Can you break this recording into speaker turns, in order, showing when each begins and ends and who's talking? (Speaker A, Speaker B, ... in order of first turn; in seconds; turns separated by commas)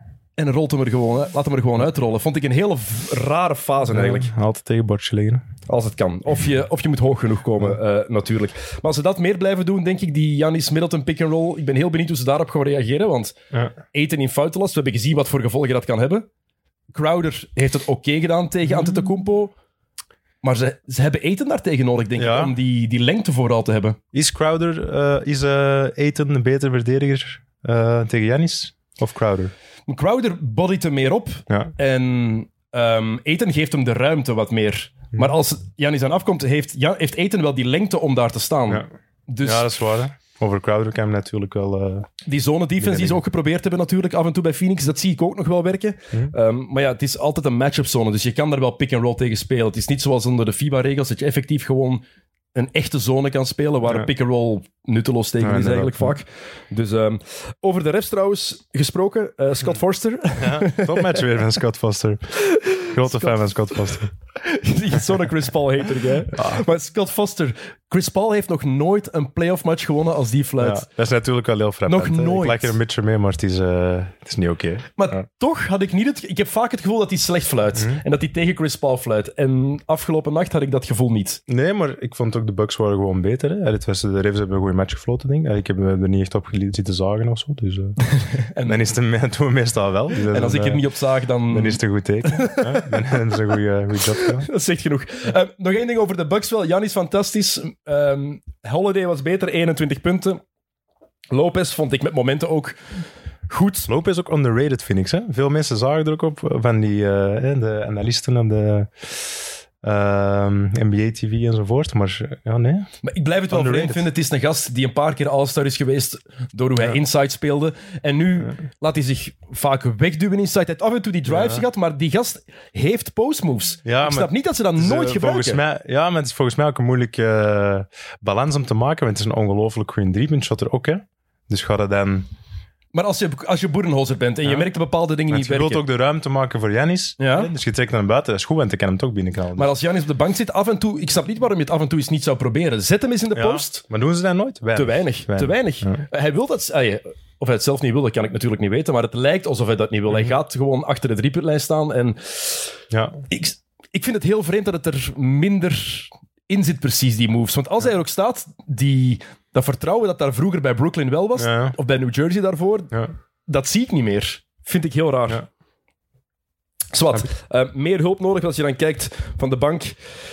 Speaker A: 0.4-4.3, Speaker B: 3.9-5.4, Speaker A: 5.7-16.3, Speaker A: 16.9-19.5, Speaker B: 18.7-19.0, Speaker A: 20.4-24.0, Speaker B: 22.1-22.5, Speaker B: 24.1-29.5, Speaker A: 29.9-39.7, Speaker B: 39.4-42.1, Speaker A: 42.2-52.0, Speaker B: 42.8-43.2, Speaker A: 52.5-61.2, Speaker B: 55.4-56.1, Speaker B: 60.4-64.1, Speaker A: 62.5-70.8, Speaker B: 66.3-66.6, Speaker B: 70.6-74.9, Speaker A: 71.9-72.8, Speaker A: 75.0-81.4, Speaker B: 77.8-78.0, Speaker B: 81.5-88.0, Speaker A: 88.0-88.8, Speaker B: 88.6-90.8, Speaker A: 90.2-93.0, Speaker B: 91.5-94.5, Speaker A: 94.1-100.4, Speaker A: 101.3-102.8, Speaker A: 103.5-103.9, Speaker B: 103.8-112.9, Speaker A: 113.0-125.6, Speaker B: 113.5-114.0, Speaker B: 121.3-121.6, Speaker B: 123.8-132.3, Speaker A: 132.9-135.8, Speaker B: 135.3-139.7, Speaker A: 137.2-137.5, Speaker A: 139.6-143.8, Speaker B: 143.3-146.0, Speaker A: 144.7-152.8, Speaker B: 152.9-153.2, Speaker A: 153.3-162.9, Speaker B: 161.4-161.7, Speaker A: 163.5-165.4, Speaker A: 166.9-170.0